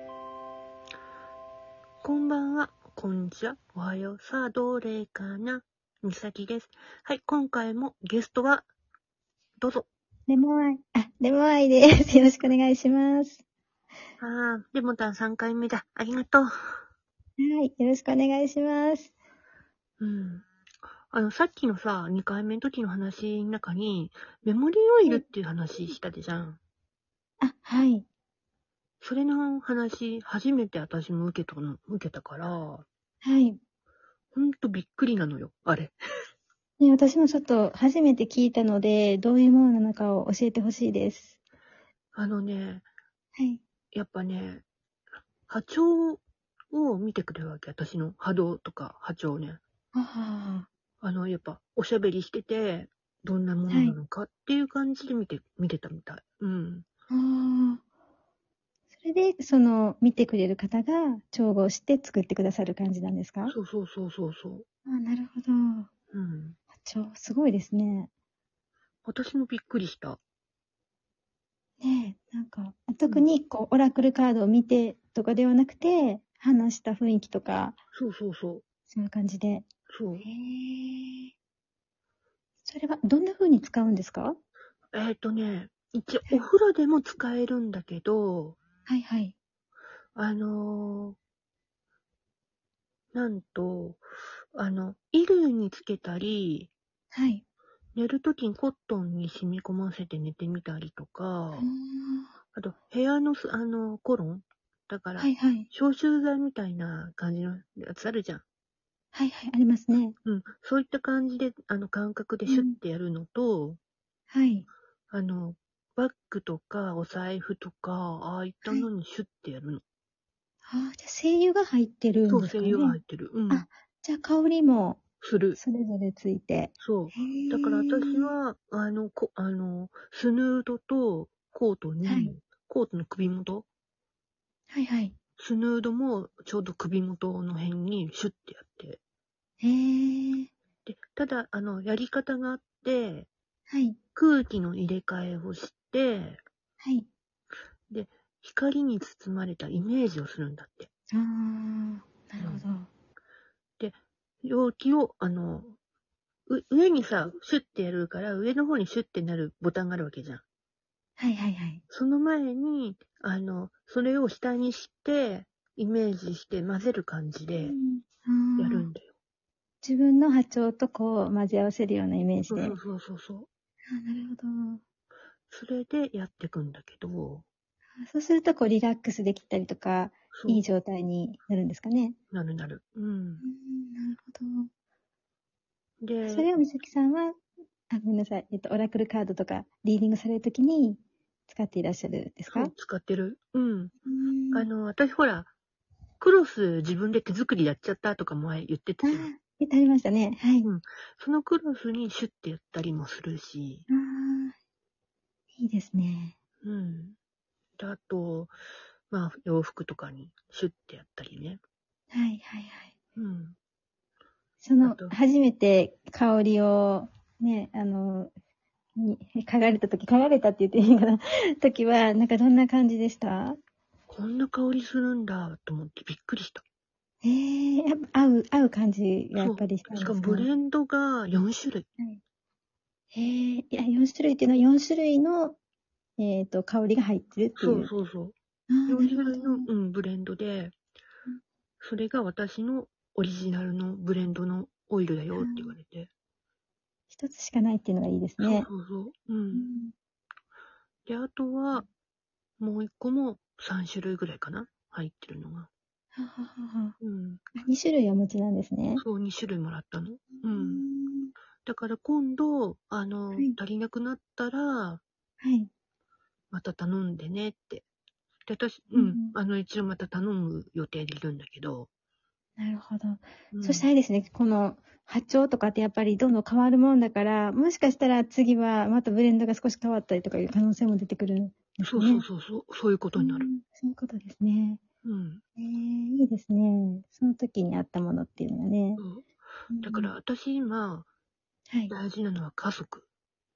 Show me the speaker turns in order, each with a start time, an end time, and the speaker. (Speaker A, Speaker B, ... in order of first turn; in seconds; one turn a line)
Speaker A: 2.0-8.7
Speaker A: 9.6-9.9
Speaker B: 10.3-13.4
Speaker A: 14.2-16.8
Speaker B: 17.4-19.1
Speaker A: 20.0-20.5
Speaker A: 21.1-26.6
Speaker B: 27.4-28.1
Speaker A: 29.0-32.9
Speaker B: 33.2-33.6
Speaker A: 34.3-36.0
Speaker B: 36.8-41.4
Speaker A: 42.1-42.9
Speaker B: 43.4-43.6
Speaker A: 43.9-44.6
Speaker A: 45.5-46.2
Speaker A: 46.7-49.6
Speaker B: 49.9-50.7
Speaker A: 51.0-56.9
Speaker B: 53.7-54.0
Speaker B: 57.1-57.8
Speaker B: 59.0-63.5
Speaker A: 63.5-64.7
Speaker B: 64.9-65.9
Speaker A: 66.1-66.6
Speaker B: 66.8-68.1
Speaker A: 69.1-70.2
Speaker B: 71.8-77.8
Speaker A: 77.9-78.6
Speaker B: 78.9-79.7
Speaker A: 79.9-80.2
Speaker B: 80.2-81.3
Speaker B: 82.7-84.4
Speaker A: 84.9-88.6
Speaker B: 88.9-89.3
Speaker A: 90.2-91.2
Speaker A: 93.1-96.7
Speaker B: 97.1-97.4
Speaker A: 98.0-101.7
Speaker B: 101.5-102.3
Speaker A: 102.5-108.4
Speaker B: 105.2-105.7
Speaker B: 109.1-110.2
Speaker A: 110.2-113.8
Speaker B: 112.5-112.8
Speaker B: 114.3-114.7
Speaker A: 115.1-119.8
Speaker B: 120.7-125.0
Speaker A: 122.3-123.7
Speaker A: 125.2-125.6
Speaker B: 125.6-128.3
Speaker A: 126.8-133.7
Speaker B: 132.0-132.3
Speaker B: 134.7-135.2
Speaker A: 135.4-139.0
Speaker B: 139.6-140.5
Speaker A: 140.9-143.3
Speaker B: 143.7-144.0
Speaker A: 144.2-146.4
Speaker B: 146.8-147.1
Speaker A: 147.9-150.9
Speaker B: 151.1-152.9
Speaker A: 152.4-152.7
Speaker A: 153.8-155.8
Speaker A: 156.5-160.4
Speaker B: 161.2-161.8
Speaker A: 161.9-167.7
Speaker B: 167.6-168.9
Speaker A: 168.6-169.1
Speaker B: 169.8-172.8
Speaker A: 172.5-173.5
Speaker B: 173.9-174.8
Speaker A: 175.5-177.5
Speaker B: 178.0-182.2
Speaker A: 180.3-180.6
Speaker A: 182.3-183.4
Speaker B: 183.4-184.7
Speaker A: 186.0-186.5
Speaker B: 186.2-187.3
Speaker B: 187.9-192.7
Speaker A: 192.5-193.9
Speaker B: 194.1-194.7
Speaker A: 194.5-195.5
Speaker A: 196.2-199.3
Speaker B: 199.0-200.7
Speaker A: 200.6-203.8
Speaker B: 203.9-204.6
Speaker B: 205.6-206.3
Speaker A: 206.6-207.2
Speaker A: 207.8-208.6
Speaker A: 209.1-211.6
Speaker B: 212.1-212.9
Speaker A: 213.2-213.6
Speaker B: 214.6-218.3
Speaker A: 214.8-215.1
Speaker B: 219.0-223.6
Speaker A: 224.1-226.6
Speaker B: 227.2-230.5
Speaker A: 229.4-231.9
Speaker B: 233.1-235.6
Speaker B: 236.2-237.9
Speaker A: 237.6-238.3
Speaker B: 238.7-239.7
Speaker A: 238.9-240.7
Speaker A: 241.8-246.1
Speaker B: 245.4-245.7
Speaker B: 247.1-248.7
Speaker A: 248.4-249.7
Speaker B: 249.5-249.9
Speaker A: 251.1-251.9
Speaker A: 252.6-255.7
Speaker B: 256.1-257.0
Speaker A: 257.0-257.4
Speaker B: 257.6-259.0
Speaker A: 259.0-260.8
Speaker B: 260.4-261.3
Speaker A: 261.6-265.0
Speaker B: 265.4-265.7
Speaker A: 266.5-267.9
Speaker A: 268.5-271.9
Speaker B: 268.9-269.4
Speaker B: 272.6-282.2
Speaker A: 273.5-273.9
Speaker A: 281.8-283.5
Speaker B: 283.2-284.8
Speaker A: 285.0-285.4
Speaker B: 285.6-289.0
Speaker A: 289.0-289.3
Speaker B: 289.7-290.1
Speaker A: 289.8-291.1
Speaker A: 291.9-293.1